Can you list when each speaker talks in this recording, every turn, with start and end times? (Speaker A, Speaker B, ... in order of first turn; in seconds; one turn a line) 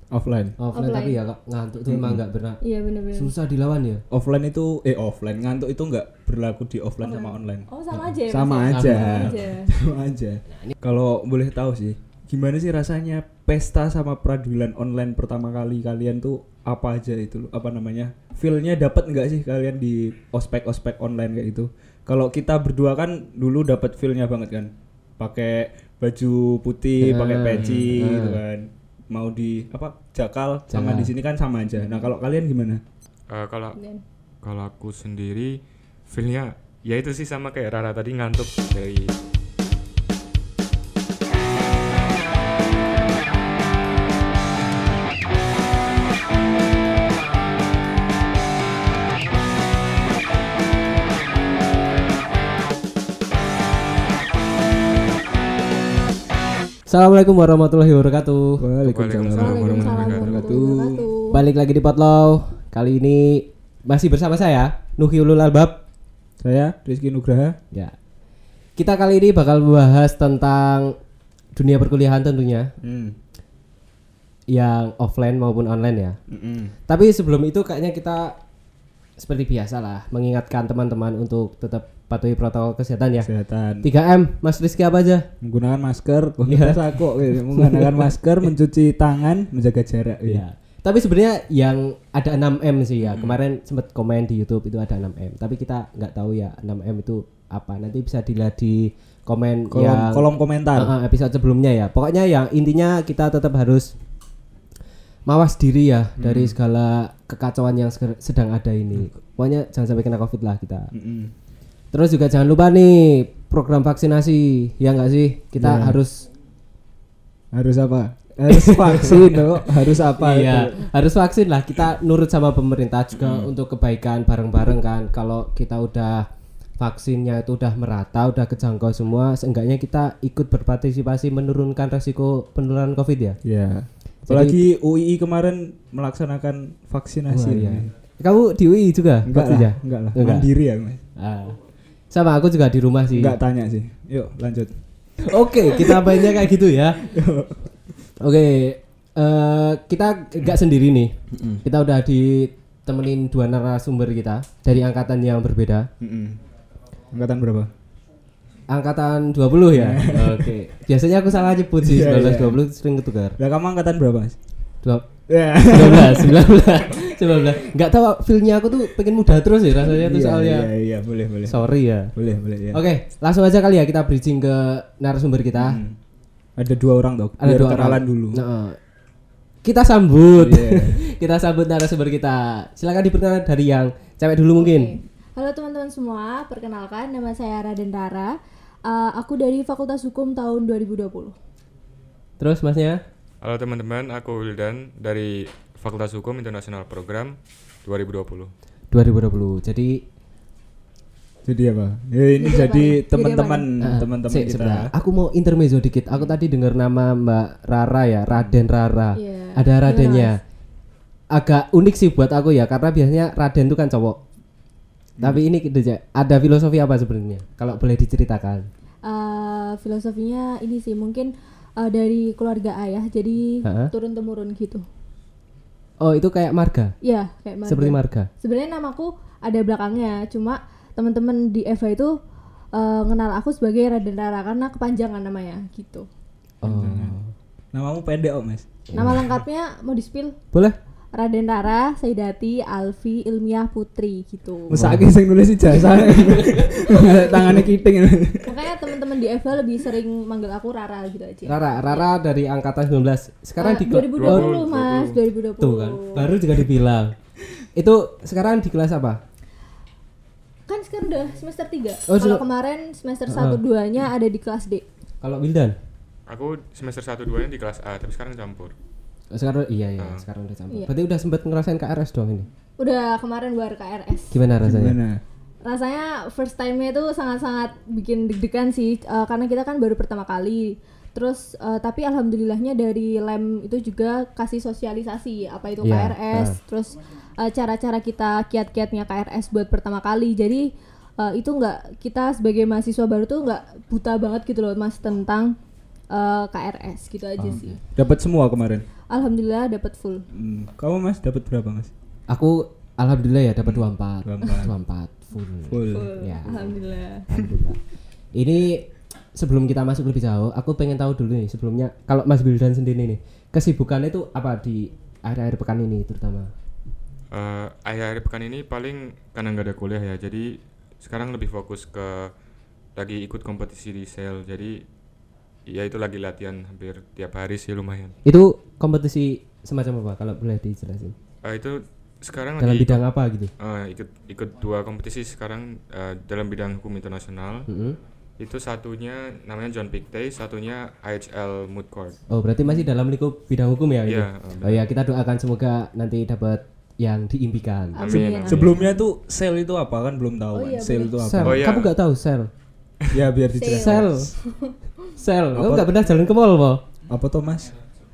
Speaker A: 0.1-0.6
Speaker B: 0.6-2.6
Speaker C: 0.7-1.2
Speaker A: 1.9-2.2
Speaker C: 2.6-3.3
Speaker B: 3.1-4.0
Speaker A: 4.1-7.6
Speaker C: 7.0-9.7
Speaker A: 8.3-32.8
Speaker B: 8.7-9.4
Speaker B: 10.5-10.7
Speaker B: 27.0-28.4
Speaker D: 27.6-27.9
Speaker B: 30.7-31.1
Speaker C: 31.8-32.1
Speaker D: 33.3-33.8
Speaker C: 33.8-34.0
Speaker D: 34.4-39.1
Speaker B: 56.9-58.7
Speaker A: 58.6-61.1
Speaker D: 58.8-60.6
Speaker C: 59.4-61.4
Speaker B: 61.3-65.8
Speaker A: 66.4-67.6
Speaker B: 68.8-71.0
Speaker B: 71.5-72.7
Speaker A: 72.8-73.2
Speaker B: 74.5-76.2
Speaker A: 76.3-76.7
Speaker B: 76.9-78.4
Speaker B: 79.2-83.3
Speaker A: 83.2-83.9
Speaker B: 83.8-85.3
Speaker A: 85.4-90.4
Speaker B: 86.5-88.1
Speaker B: 90.2-104.0
Speaker A: 93.1-93.4
Speaker A: 99.7-100.9
Speaker B: 105.3-110.9
Speaker A: 106.2-106.6
Speaker A: 110.9-111.3
Speaker B: 111.9-116.3
Speaker A: 115.6-116.0
Speaker A: 117.5-120.8
Speaker B: 118.5-133.4
Speaker A: 133.4-137.9
Speaker B: 134.2-134.7
Speaker B: 137.3-140.5
Speaker A: 139.2-141.0
Speaker B: 141.2-141.6
Speaker B: 142.1-143.4
Speaker A: 143.1-144.7
Speaker B: 145.2-147.1
Speaker A: 145.8-146.5
Speaker A: 147.0-147.6
Speaker B: 148.2-155.9
Speaker A: 151.3-151.6
Speaker A: 156.0-156.4
Speaker A: 157.1-157.7
Speaker B: 158.7-163.4
Speaker A: 159.7-160.5
Speaker A: 161.8-162.6
Speaker A: 163.4-164.3
Speaker B: 164.8-165.1
Speaker A: 165.3-166.5
Speaker B: 165.6-170.7
Speaker A: 169.8-171.6
Speaker B: 171.5-172.1
Speaker A: 172.2-172.8
Speaker B: 172.7-175.8
Speaker A: 175.6-176.0
Speaker A: 176.6-178.4
Speaker B: 177.4-178.8
Speaker B: 179.6-184.9
Speaker A: 180.4-181.0
Speaker C: 184.6-191.3
Speaker B: 192.4-193.0
Speaker D: 193.4-198.5
Speaker B: 198.9-200.0
Speaker A: 201.4-204.9
Speaker C: 202.4-203.7
Speaker B: 203.8-210.4
Speaker C: 209.2-210.3
Speaker B: 211.3-214.2
Speaker B: 215.2-218.7
Speaker C: 219.1-224.8
Speaker B: 223.6-223.9
Speaker B: 226.0-226.9
Speaker C: 227.0-232.2
Speaker B: 227.7-228.3
Speaker C: 232.7-236.1
Speaker B: 236.6-237.3
Speaker A: 236.6-237.1
Speaker A: 237.7-238.7
Speaker B: 238.9-239.3
Speaker C: 238.9-240.3
Speaker B: 240.5-240.8
Speaker C: 241.1-244.8
Speaker A: 244.7-248.7
Speaker B: 244.7-245.2
Speaker C: 246.0-247.5
Speaker C: 248.4-251.7
Speaker B: 251.5-257.1
Speaker C: 253.6-256.3
Speaker D: 254.2-255.1
Speaker B: 257.7-259.2
Speaker C: 260.7-264.8
Speaker B: 262.1-262.4
Speaker B: 263.3-263.6
Speaker B: 265.2-265.7
Speaker D: 266.3-268.7
Speaker B: 269.3-272.5
Speaker D: 270.0-270.2
Speaker C: 272.8-274.4
Speaker B: 274.3-275.0
Speaker A: 274.6-275.2
Speaker C: 275.6-295.5
Speaker B: 285.8-286.6
Speaker C: 296.1-297.8
Speaker B: 297.4-297.8
Speaker A: 297.5-298.8
Speaker C: 299.1-300.2
Speaker A: 300.3-301.9
Speaker B: 302.3-306.7
Speaker A: 303.6-304.7
Speaker A: 305.7-306.1
Speaker C: 305.9-307.3
Speaker B: 307.3-307.8
Speaker B: 308.3-316.5
Speaker D: 317.3-322.3
Speaker D: 322.9-324.8
Speaker D: 325.7-328.1
Speaker B: 328.2-331.1
Speaker D: 331.4-333.0
Speaker B: 332.6-333.5
Speaker D: 333.6-337.7
Speaker B: 337.7-338.0
Speaker D: 338.4-342.2
Speaker B: 342.3-348.7
Speaker D: 344.1-344.8
Speaker C: 347.9-349.0
Speaker D: 348.0-348.8
Speaker A: 348.4-351.8
Speaker C: 350.5-351.3
Speaker B: 351.2-352.5
Speaker D: 351.4-351.9
Speaker A: 353.1-354.1
Speaker C: 353.6-354.8
Speaker B: 353.7-354.3
Speaker B: 355.2-356.8
Speaker A: 355.5-355.9
Speaker A: 357.1-357.7